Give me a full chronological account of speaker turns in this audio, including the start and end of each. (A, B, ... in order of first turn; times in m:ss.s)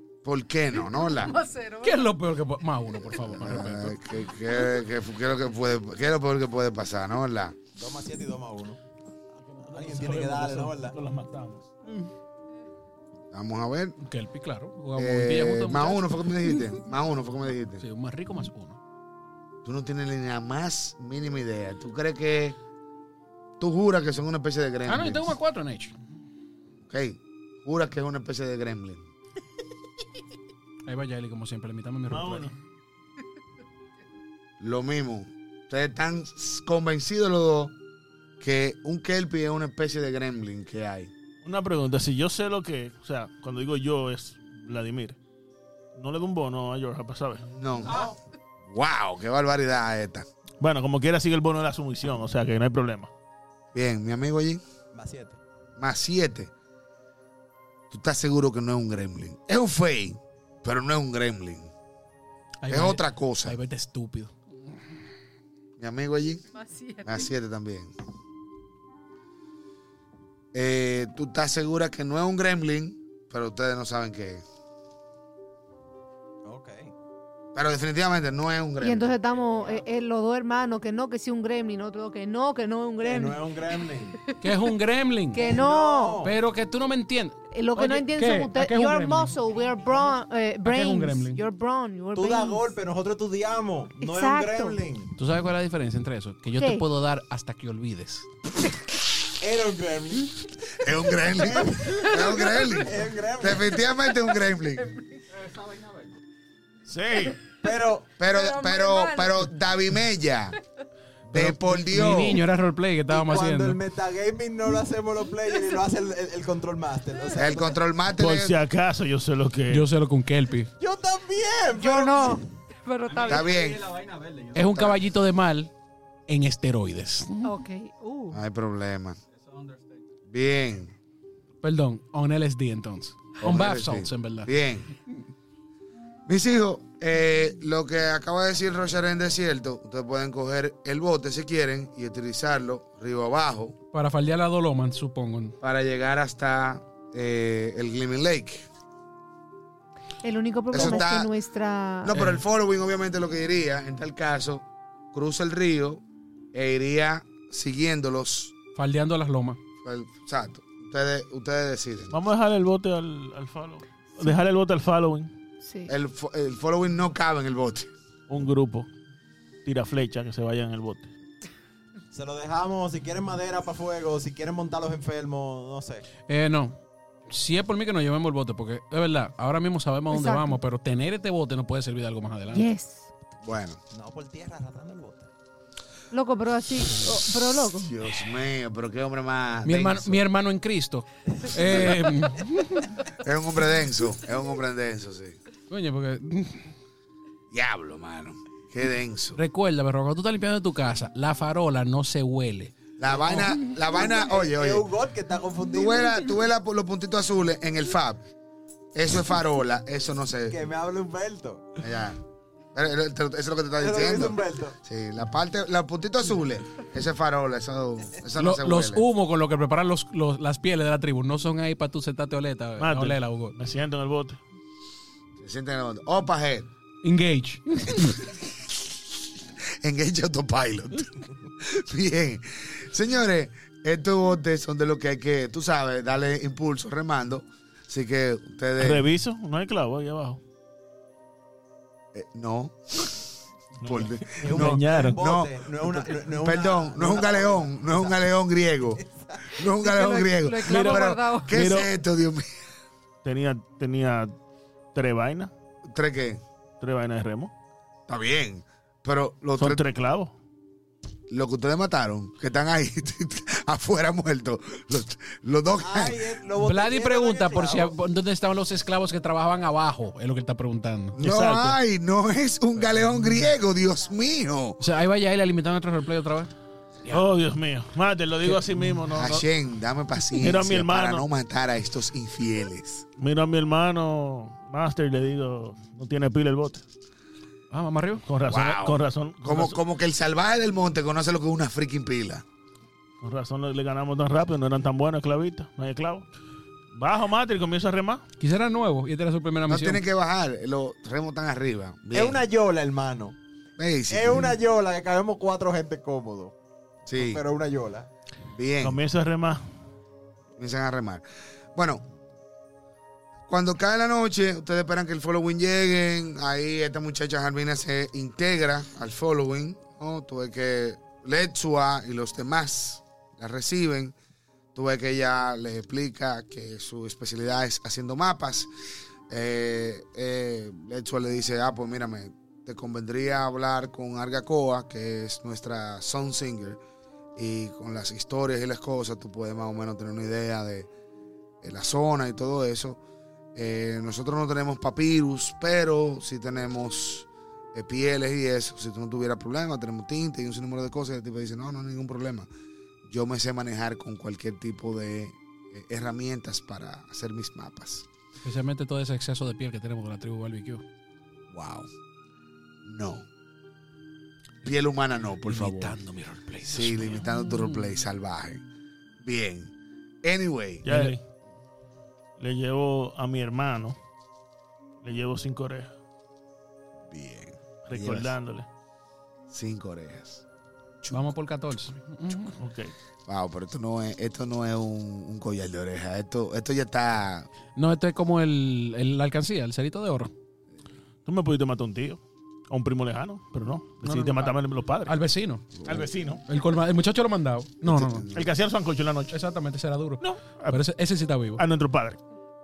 0:00.2-0:01.4 A
0:01.4-0:01.8 B
0:01.7-0:04.0 C
0:02.9-0:07.6 A
0:07.7-0:08.8 D
0:09.4-0:11.6 E
0:09.6-0:11.0 D
0:11.8-0:12.1 C
0:13.3-0:14.0 A
0:14.0-0:16.6 C
0:14.9-0:17.8 A
0:17.8-0:18.8 C
0:19.6-0:22.6 A
0:23.6-0:25.3 A
0:24.9-0:26.0 C
0:26.9-0:29.0 A
0:30.8-0:32.5 C
0:32.1-0:32.5 E
0:34.6-0:37.7 A
0:38.4-0:41.1 A
0:41.4-0:45.2 E
0:45.9-0:47.4 E
0:47.4-0:48.1 A
0:48.6-0:50.2 A
0:50.6-0:53.1 E
0:53.7-0:54.6 A
0:54.9-0:55.4 D
0:55.8-0:56.5 A
0:57.9-1:01.7 A
1:02.6-1:04.4 C
1:02.7-1:03.6 A
1:05.8-1:06.4 A
1:06.7-1:07.0 B
1:07.0-1:07.9 A
1:10.5-1:14.4 A
1:16.4-1:16.9 D
1:17.5-1:19.2 A
1:18.8-1:23.4 B
1:19.5-1:19.8 D
1:23.0-1:24.2 D
1:24.4-1:25.5 C
1:25.3-1:26.3 B
1:25.3-1:26.4 D
1:26.2-1:29.3 C
1:27.5-1:32.6 B
1:30.6-1:31.4 C
1:32.1-1:35.1 D
1:34.0-1:34.8 B
1:35.2-1:38.3 C
1:36.6-1:36.8 B
1:39.4-1:40.4 D
1:40.7-1:45.0 A
1:41.3-1:43.8 D
1:46.8-1:47.4 E
1:47.6-1:48.1 D
1:48.2-1:50.6 A
1:48.7-1:48.9 B
1:51.3-1:52.4 A
1:51.3-1:53.8 C
1:53.1-1:57.8 D
1:57.3-1:58.5 A
1:58.2-1:59.9 E
1:59.7-2:00.7 C
2:00.8-2:02.4 D
2:01.8-2:03.6 B
2:03.2-2:05.0 A
2:04.5-2:05.7 C
2:06.3-2:07.5 C
2:07.4-2:08.4 B
2:08.3-2:09.2 A
2:10.3-2:10.9 A
2:11.6-2:14.5 C
2:13.4-2:14.9 A
2:16.3-2:23.8 A
2:23.9-2:25.6 C
2:25.6-2:28.6 A
2:30.2-2:32.2 B
2:30.7-2:31.3 A
2:32.0-2:36.0 A
2:32.1-2:32.4 C
2:36.5-2:38.5 A
2:38.7-2:39.6 C
2:39.8-2:42.1 A
2:42.1-2:45.3 E
2:45.6-2:45.9 B
2:45.9-2:47.9 A
2:48.3-2:48.9 E
2:49.6-2:51.1 E
2:52.1-2:56.1 D
2:56.3-2:56.8 C
2:57.3-3:02.7 C
3:00.1-3:00.6 B
3:02.5-3:03.1 B
3:03.4-3:03.8 A
3:03.9-3:05.3 D
3:06.1-3:07.9 B
3:07.7-3:10.2 A
3:09.6-3:13.0 C
3:11.6-3:12.0 A
3:13.2-3:15.4 A
3:15.7-3:16.7 C
3:17.5-3:19.4 A
3:19.3-3:22.9 C
3:23.0-3:24.9 A
3:23.1-3:26.3 D
3:25.7-3:28.2 A
3:28.9-3:30.6 A
3:30.5-3:31.8 D
3:31.8-3:32.2 A
3:32.7-3:39.0 A
3:33.8-3:34.8 D
3:38.4-3:43.6 C
3:42.8-3:44.4 E
3:45.4-3:46.7 A
3:47.0-3:48.3 C
3:49.8-3:59.1 A
3:58.8-4:00.4 E
4:02.1-4:03.3 A
4:03.8-4:05.2 E
4:03.8-4:12.4 A
4:04.4-4:08.3 D
4:09.0-4:09.5 D
4:09.6-4:11.5 B
4:10.6-4:11.9 E
4:13.2-4:14.3 E
4:14.9-4:15.5 E
4:15.9-4:16.4 A
4:16.8-4:17.5 E
4:18.1-4:19.8 A
4:19.6-4:20.3 E
4:21.3-4:26.3 A
4:25.8-4:28.0 D
4:26.6-4:31.2 C
4:31.1-4:34.8 A
4:31.2-4:31.8 E
4:34.8-4:36.5 C
4:37.1-4:39.4 E
4:39.2-4:43.0 A
4:40.3-4:41.2 E
4:43.2-4:46.8 E
4:47.7-4:48.2 C
4:48.2-4:49.8 E
4:48.5-4:52.4 A
4:53.2-4:56.2 E
4:56.9-4:58.2 E
4:58.4-5:00.0 C
4:59.7-5:02.4 A
5:02.1-5:03.4 D
5:03.8-5:04.5 A
5:04.1-5:06.5 D
5:07.1-5:07.4 A
5:07.1-5:08.1 D
5:08.5-5:09.0 A
5:08.8-5:09.6 E
5:10.6-5:11.2 A
5:11.7-5:12.0 A
5:13.5-5:24.1 A
5:24.7-5:28.7 A
5:29.3-5:36.8 A
5:37.4-5:40.9 A
5:41.6-5:43.0 A
5:43.5-5:52.5 A
5:53.1-5:58.1 A
5:58.4-6:00.8 C
6:01.5-6:01.9 A
6:02.8-6:03.2 A
6:04.6-6:06.0 A
6:05.4-6:07.9 C
6:06.6-6:08.6 A
6:09.2-6:09.7 A
6:10.2-6:10.9 A
6:10.8-6:11.2 E
6:10.9-6:11.1 C
6:12.4-6:14.0 E
6:15.0-6:15.9 E
6:17.1-6:18.3 A
6:17.9-6:18.6 E
6:19.5-6:20.4 A
6:21.1-6:22.6 C
6:22.6-6:22.9 E
6:23.3-6:27.5 A
6:27.8-6:30.3 C
6:31.2-6:35.2 E
6:34.0-6:34.5 C
6:35.0-6:35.9 C
6:35.8-6:36.4 E
6:36.4-6:38.3 C
6:37.8-6:38.5 A
6:38.3-6:39.3 E
6:39.3-6:41.6 C
6:40.2-6:40.8 E
6:41.6-6:42.2 E